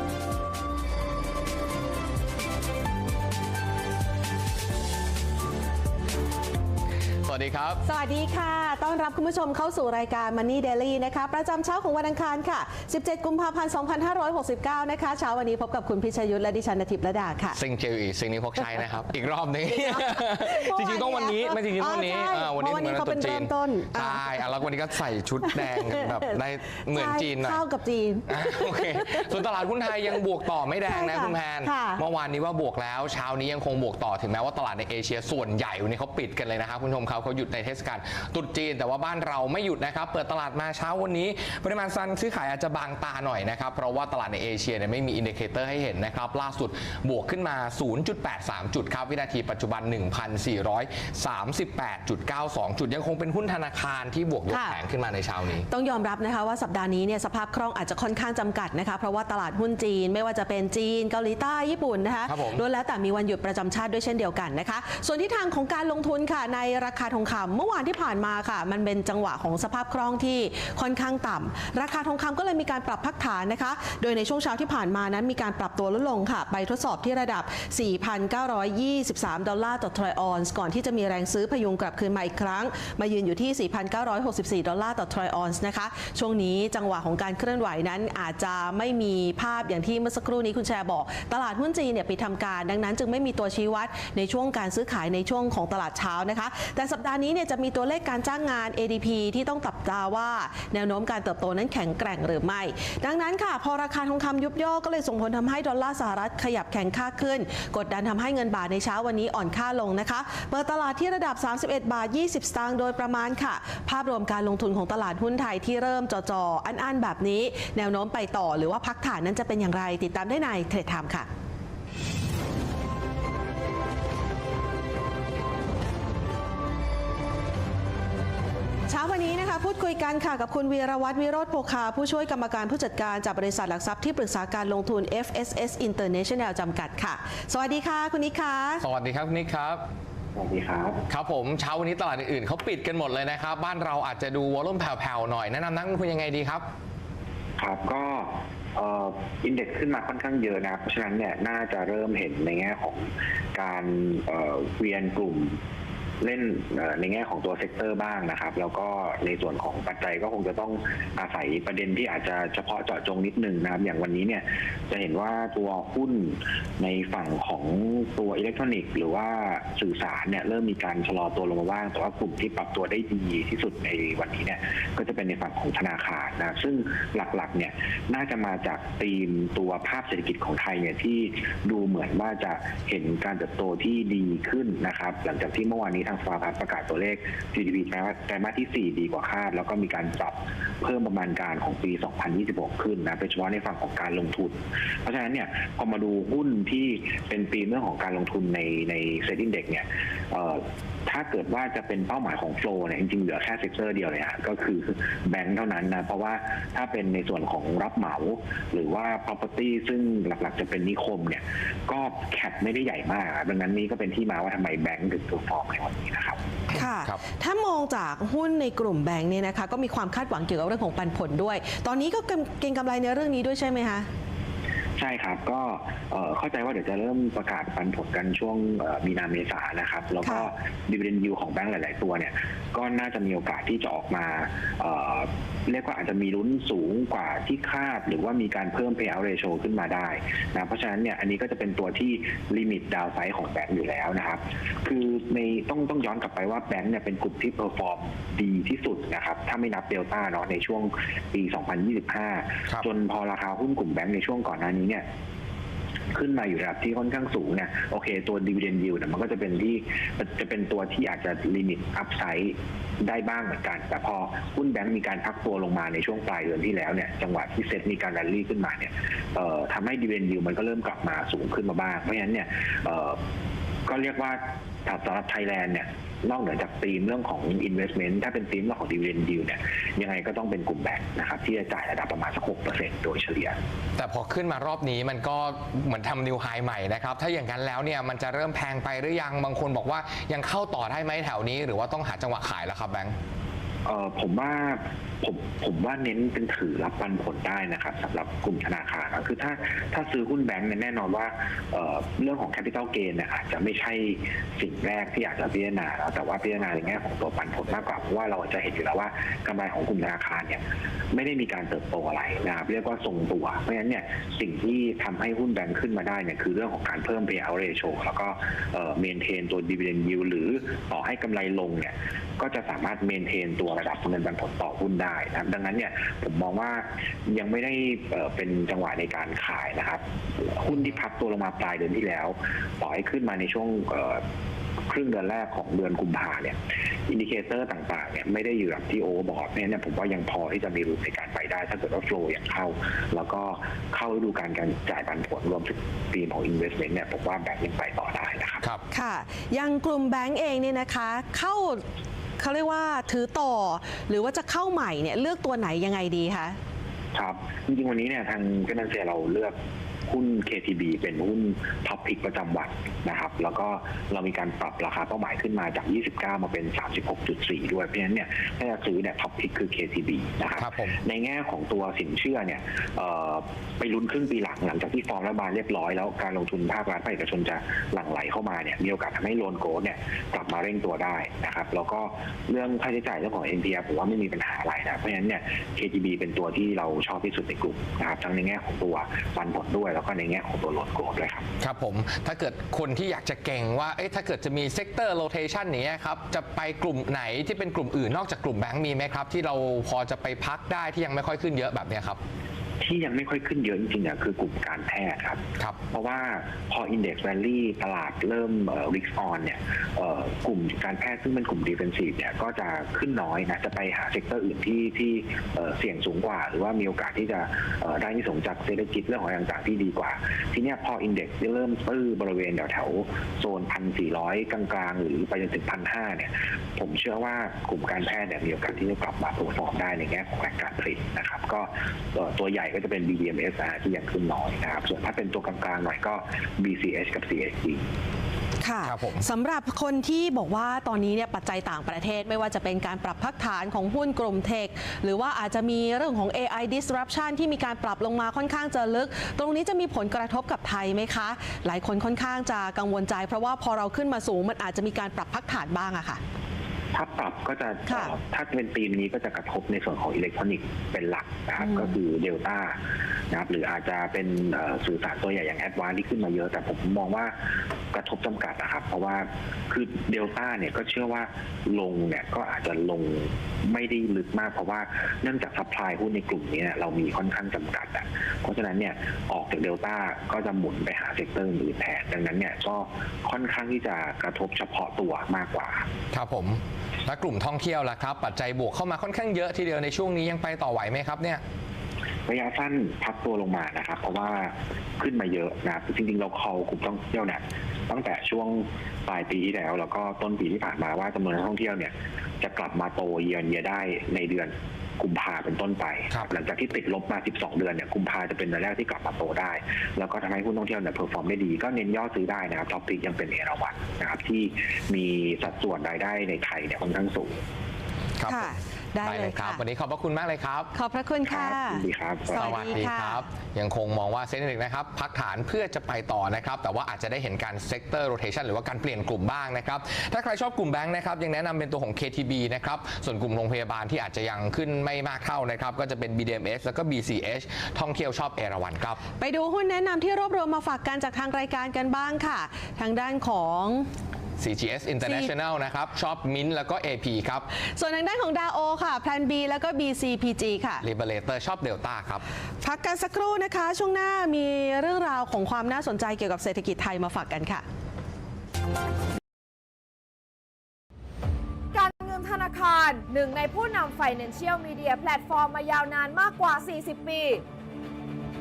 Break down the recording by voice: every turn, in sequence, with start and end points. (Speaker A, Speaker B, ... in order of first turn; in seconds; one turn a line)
Speaker A: 7.2-7.8
Speaker B: 7.8-17.6
Speaker A: 17.5-27.6
Speaker B: 19.7-24.4
Speaker B: 25.4-26.3
Speaker B: 26.9-29.4
Speaker A: 28.3-55.6
Speaker B: 30.8-32.0
Speaker B: 54.5-54.8
Speaker B: 55.7-121.3
Speaker A: 62.3-62.6
Speaker B: 128.9-138.8
Speaker A: 138.8-139.8
Speaker C: 140.3-141.0
Speaker A: 141.1-146.6
Speaker C: 147.6-155.6
Speaker C: 156.2-216.4
Speaker A: 216.7-217.2
Speaker B: 216.7-224.1
Speaker C: 225.0-255.0
Speaker B: 230.2-230.5
Speaker C: 256.1-273.2
Speaker C: 273.9-283.6
Speaker A: 284.0-293.1
Speaker C: 293.8-334.2
Speaker C: 334.9-348.6
Speaker B: 348.9-351.8
Speaker B: 352.4-356.6
Speaker C: 357.1-359.5
Speaker C: 360.1-391.5
Speaker A: 370.6-371.0
Speaker A: 391.6-402.2
Speaker C: 402.8-437.8
Speaker B: 438.6-456.2
Speaker A: 438.8-439.2
Speaker C: 456.9-462.8
Speaker B: 457.9-458.1
Speaker B: 461.6-461.9
Speaker C: 463.3-467.3
Speaker C: 467.9-485.9
Speaker A: 486.1-491.4
Speaker C: 492.3-517.4
Speaker A: 518.2-520.7
Speaker B: 518.3-519.6
Speaker B: 520.7-523.2
Speaker C: 521.2-522.8
Speaker A: 522.3-539.0
Speaker B: 539.2-543.9
Speaker A: 544.4-547.5
Speaker B: 545.0-545.3
Speaker B: 547.8-550.8
Speaker A: 550.8-552.2
Speaker B: 552.6-557.6
Speaker D: 561.7-567.4